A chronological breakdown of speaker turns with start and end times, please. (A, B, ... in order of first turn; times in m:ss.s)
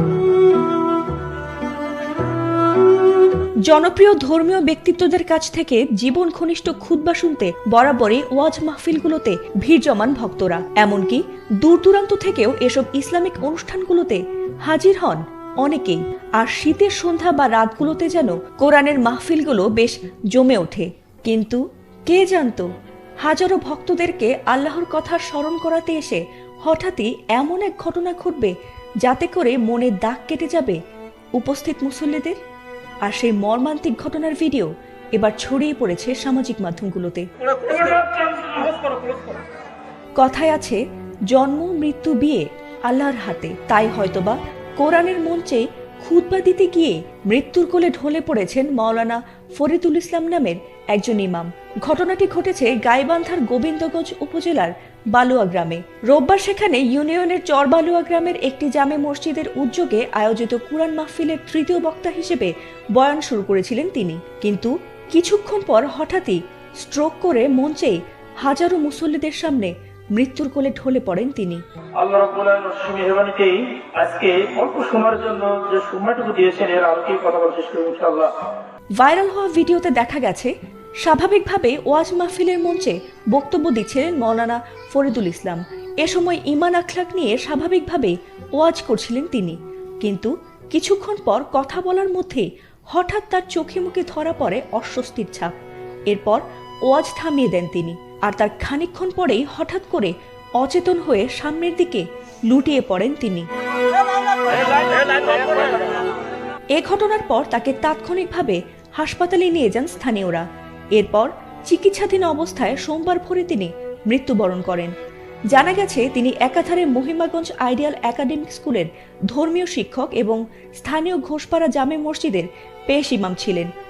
0:03.7-0:22.7 A
0:23.2-0:30.8 A
0:31.4-0:32.4 A
0:33.0-0:37.3 A
0:37.4-0:39.4 B
0:40.2-1:11.6 A
1:12.0-1:18.3 B
1:19.0-1:35.5 A
1:36.1-1:43.4 A
1:44.5-1:46.0 B
1:46.8-1:54.9 A
1:55.5-2:03.7 A